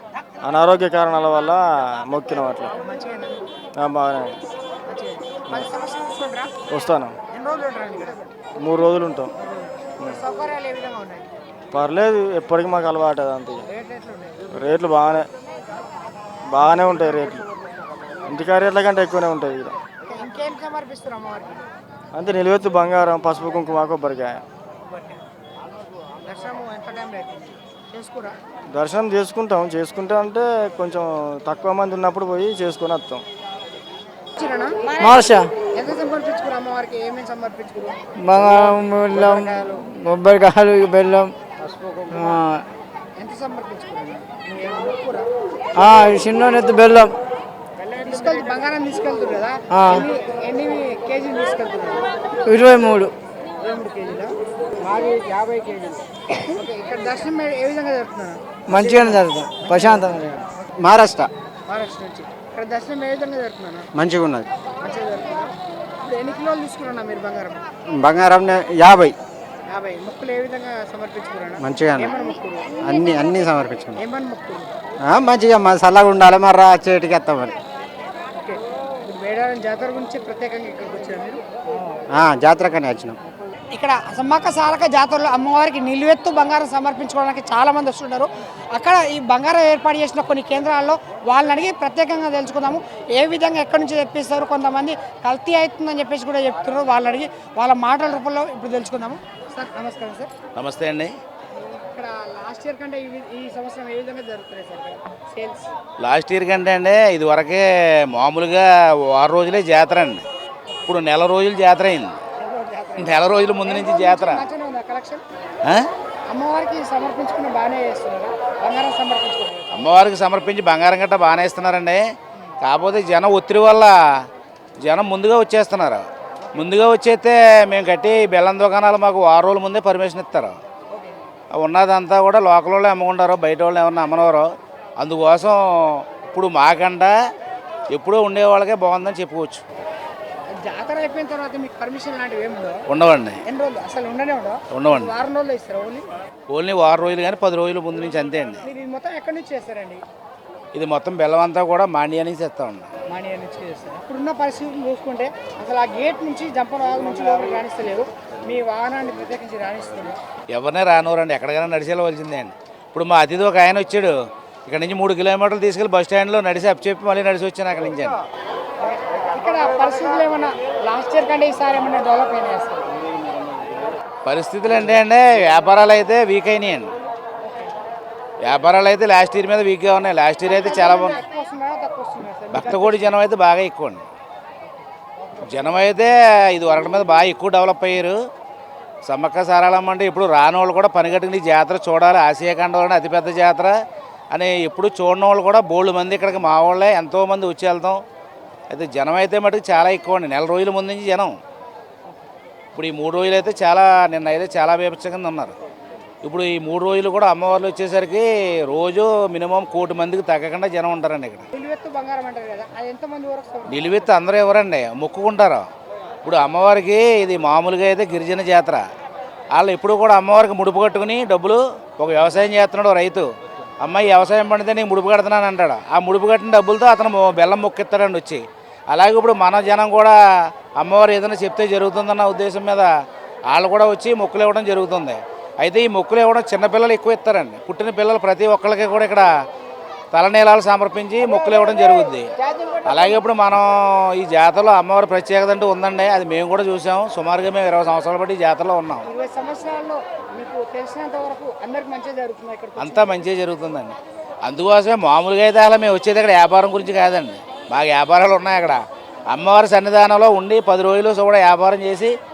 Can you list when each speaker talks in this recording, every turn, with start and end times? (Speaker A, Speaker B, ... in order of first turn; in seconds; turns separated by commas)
Speaker A: 0.4-2.7, Speaker B: 2.7-3.4, Speaker A: 3.8-4.4, Speaker B: 4.9-6.5, Speaker A: 6.7-7.2, Speaker B: 7.3-8.3, Speaker A: 8.6-9.3, Speaker B: 9.4-11.3, Speaker A: 11.7-13.6, Speaker B: 13.6-14.4, Speaker A: 14.5-15.3, Speaker A: 16.5-17.4, Speaker A: 18.3-19.7, Speaker B: 20.0-21.7, Speaker A: 22.1-24.4, Speaker B: 26.2-28.4, Speaker A: 28.7-33.2, Speaker B: 34.4-38.0, Speaker C: 35.0-35.5, Speaker C: 38.2-41.3, Speaker B: 39.1-39.9, Speaker C: 42.1-42.6, Speaker B: 43.2-45.3, Speaker C: 45.8-47.2, Speaker B: 47.9-52.1, Speaker C: 49.7-50.0, Speaker C: 52.5-53.1, Speaker B: 53.6-60.5, Speaker C: 58.7-60.4, Speaker D: 60.8-61.3, Speaker B: 61.7-63.9, Speaker D: 63.9-64.5, Speaker B: 64.8-67.6, Speaker D: 67.9-69.2, Speaker B: 69.7-72.7, Speaker D: 71.6-72.1, Speaker D: 72.8-74.0, Speaker B: 74.0-74.7, Speaker D: 75.0-77.5, Speaker B: 78.3-81.4, Speaker D: 82.1-83.2, Speaker B: 83.7-100.3, Speaker E: 100.5-101.1, Speaker B: 101.5-105.7, Speaker E: 106.0-110.2, Speaker E: 110.9-112.2, Speaker B: 112.4-115.2, Speaker E: 113.0-114.4, Speaker B: 116.3-119.8, Speaker E: 119.7-122.0, Speaker E: 122.6-123.9, Speaker E: 124.8-130.6, Speaker E: 131.5-137.2, Speaker E: 137.9-139.6, Speaker B: 140.6-142.8, Speaker E: 142.9-143.4, Speaker B: 143.4-146.1, Speaker E: 144.7-145.1, Speaker E: 146.5-148.6, Speaker B: 148.6-150.0, Speaker E: 150.7-152.9, Speaker B: 153.1-160.2, Speaker E: 160.5-164.1, Speaker E: 164.7-168.2, Speaker B: 168.9-172.9, Speaker E: 174.2-176.9, Speaker E: 178.4-181.2, Speaker B: 180.5-183.2, Speaker E: 182.5-184.1, Speaker E: 185.4-188.2, Speaker E: 189.1-193.8, Speaker E: 194.3-198.0, Speaker E: 198.7-201.3, Speaker E: 202.7-205.6, Speaker E: 206.2-211.5, Speaker B: 211.5-214.1, Speaker E: 213.7-215.7, Speaker E: 216.2-218.8, Speaker E: 219.5-223.3, Speaker E: 223.8-230.2, Speaker E: 230.8-232.9, Speaker E: 233.5-239.3, Speaker E: 240.1-242.3, Speaker B: 242.6-242.9, Speaker E: 242.8-249.1, Speaker B: 249.0-253.2, Speaker E: 252.8-262.1